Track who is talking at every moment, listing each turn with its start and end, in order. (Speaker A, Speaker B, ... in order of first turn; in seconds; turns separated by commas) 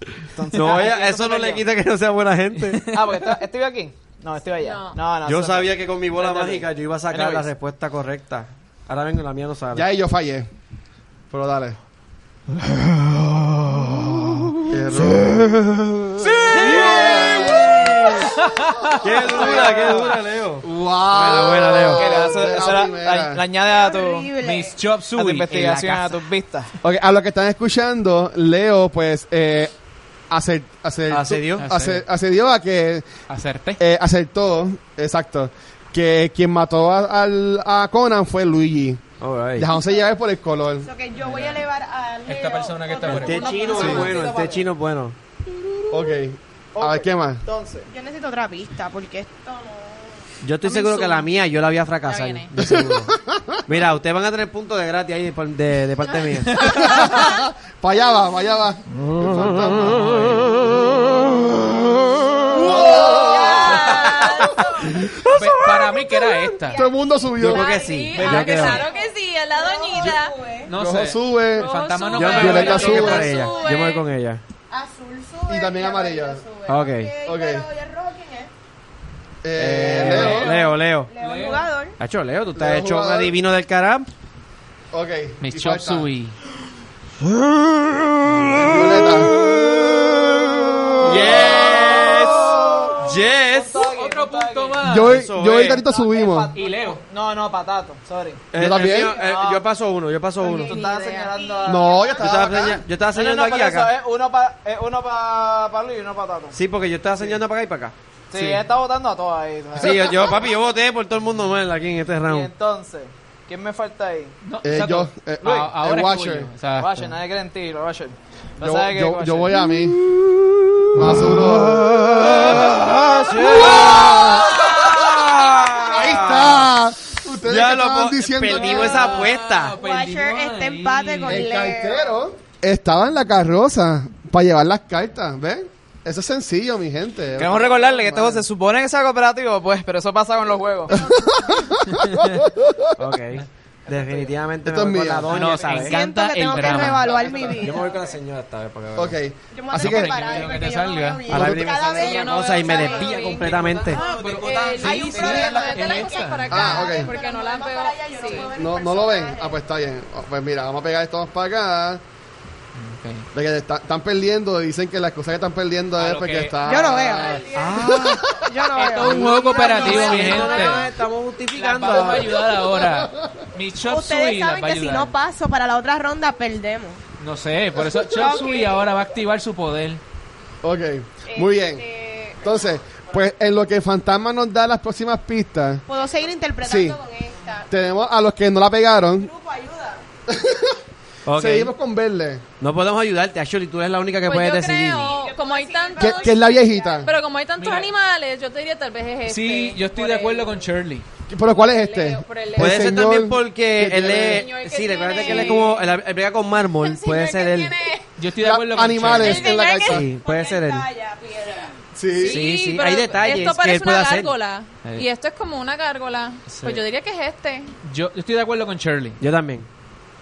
Speaker A: 0.3-1.7, Speaker B: 0.5-2.8, Speaker C: 2.6-3.2, Speaker A: 2.9-7.5, Speaker D: 4.6-5.0, Speaker B: 5.2-9.9, Speaker E: 9.7-10.5, Speaker E: 11.3-11.8, Speaker B: 13.6-14.3, Speaker E: 14.7-15.6, Speaker B: 14.9-18.3, Speaker C: 16.2-20.1, Speaker E: 16.2-20.1, Speaker B: 19.0-22.1, Speaker E: 20.6-23.4, Speaker A: 22.0-24.3, Speaker F: 23.6-24.8, Speaker C: 24.4-26.1, Speaker A: 25.1-26.7, Speaker E: 26.8-29.7, Speaker E: 30.3-33.1, Speaker B: 31.1-31.7, Speaker C: 31.6-32.0, Speaker C: 33.3-33.8, Speaker E: 33.8-39.0, Speaker B: 39.2-39.7, Speaker E: 39.6-40.9, Speaker F: 40.8-44.1, Speaker C: 41.2-41.6, Speaker C: 42.2-44.2, Speaker B: 43.0-45.2, Speaker A: 43.3-44.7, Speaker D: 43.5-44.2, Speaker E: 43.8-44.0, Speaker E: 45.9-47.4, Speaker A: 46.8-47.9, Speaker F: 47.9-50.2, Speaker B: 50.4-56.7, Speaker D: 50.6-51.3, Speaker D: 52.0-52.5, Speaker E: 52.6-53.6, Speaker C: 56.5-57.2, Speaker E: 56.6-60.6, Speaker B: 59.1-59.8, Speaker C: 59.6-61.2, Speaker E: 62.5-64.0, Speaker F: 62.6-63.9, Speaker D: 62.7-64.8, Speaker B: 64.9-65.5, Speaker C: 65.0-66.9, Speaker F: 66.6-70.7, Speaker E: 66.7-67.7, Speaker B: 67.4-68.8, Speaker D: 67.5-70.4, Speaker C: 68.1-68.8, Speaker C: 70.7-73.4, Speaker E: 70.7-71.7, Speaker D: 71.5-74.0, Speaker B: 72.1-74.4, Speaker E: 72.3-73.3, Speaker F: 73.4-73.7, Speaker F: 74.7-78.5, Speaker E: 75.5-76.4, Speaker B: 76.7-77.1, Speaker E: 77.2-77.7, Speaker E: 79.4-80.5, Speaker B: 79.6-81.1, Speaker C: 79.9-81.7, Speaker F: 80.2-82.0, Speaker B: 82.0-84.1, Speaker E: 82.5-83.3, Speaker E: 84.9-86.1, Speaker C: 85.4-86.4, Speaker B: 87.7-93.8, Speaker E: 88.6-89.3, Speaker E: 91.0-92.9, Speaker C: 91.0-92.6, Speaker A: 91.3-94.8, Speaker C: 93.8-95.2, Speaker E: 94.8-96.5, Speaker B: 95.0-95.8, Speaker A: 95.7-98.5, Speaker C: 96.5-97.0, Speaker B: 98.5-100.8, Speaker E: 98.5-99.2, Speaker A: 99.0-99.6, Speaker A: 100.4-102.2, Speaker D: 100.6-101.4, Speaker F: 101.4-102.3, Speaker E: 101.7-102.8, Speaker B: 102.2-103.9, Speaker A: 103.1-106.6, Speaker B: 106.5-108.0, Speaker A: 108.3-110.4, Speaker C: 108.3-108.6, Speaker B: 109.8-112.5, Speaker A: 112.3-114.3, Speaker C: 114.4-117.1, Speaker E: 114.6-116.5, Speaker A: 116.8-119.6, Speaker E: 118.6-120.0, Speaker B: 119.7-126.7, Speaker E: 120.9-124.8, Speaker E: 125.9-129.2, Speaker B: 127.4-129.8, Speaker C: 128.5-131.4, Speaker F: 129.7-132.1, Speaker E: 131.2-137.7, Speaker A: 137.4-141.1, Speaker B: 137.8-138.4, Speaker E: 140.9-143.0, Speaker C: 141.9-142.4, Speaker B: 143.0-146.0, Speaker A: 143.9-144.3, Speaker E: 144.6-145.3, Speaker C: 145.3-147.4, Speaker F: 145.7-147.9, Speaker A: 146.6-148.1, Speaker B: 147.5-149.2, Speaker E: 149.0-150.4, Speaker F: 149.5-153.2, Speaker C: 149.7-151.5, Speaker B: 151.3-154.0, Speaker E: 151.3-151.7, Speaker D: 151.8-158.5, Speaker C: 153.4-156.8, Speaker A: 153.5-156.1, Speaker F: 154.8-159.6, Speaker E: 156.5-157.1, Speaker E: 158.5-162.0, Speaker C: 162.7-163.3, Speaker E: 163.3-168.4, Speaker C: 166.0-168.0, Speaker F: 166.6-170.9, Speaker B: 167.5-168.3, Speaker C: 168.7-170.9, Speaker B: 168.9-172.4, Speaker C: 171.5-175.1, Speaker E: 172.4-173.4, Speaker F: 173.8-177.0, Speaker C: 177.2-180.0, Speaker F: 178.0-178.9, Speaker E: 180.6-181.8, Speaker F: 181.3-182.4, Speaker E: 182.4-185.8, Speaker F: 185.9-187.7, Speaker E: 186.6-187.0, Speaker E: 187.7-189.3, Speaker F: 189.2-190.1, Speaker E: 190.3-190.8, Speaker B: 191.3-191.7, Speaker E: 191.3-192.4, Speaker B: 192.6-195.1, Speaker D: 194.2-196.5, Speaker F: 195.0-197.1, Speaker E: 196.0-197.1, Speaker D: 197.0-200.6, Speaker C: 197.6-197.9, Speaker C: 199.3-201.1, Speaker E: 201.3-204.5, Speaker D: 201.5-203.1, Speaker B: 202.6-207.8, Speaker D: 204.0-206.0, Speaker D: 206.8-208.1, Speaker C: 208.2-209.5, Speaker E: 208.4-210.0, Speaker D: 209.1-210.0, Speaker F: 209.6-211.8, Speaker B: 209.8-210.9, Speaker E: 211.9-212.5, Speaker D: 212.1-217.7, Speaker B: 212.2-214.3, Speaker B: 216.5-216.8, Speaker C: 217.8-219.2, Speaker B: 219.2-219.7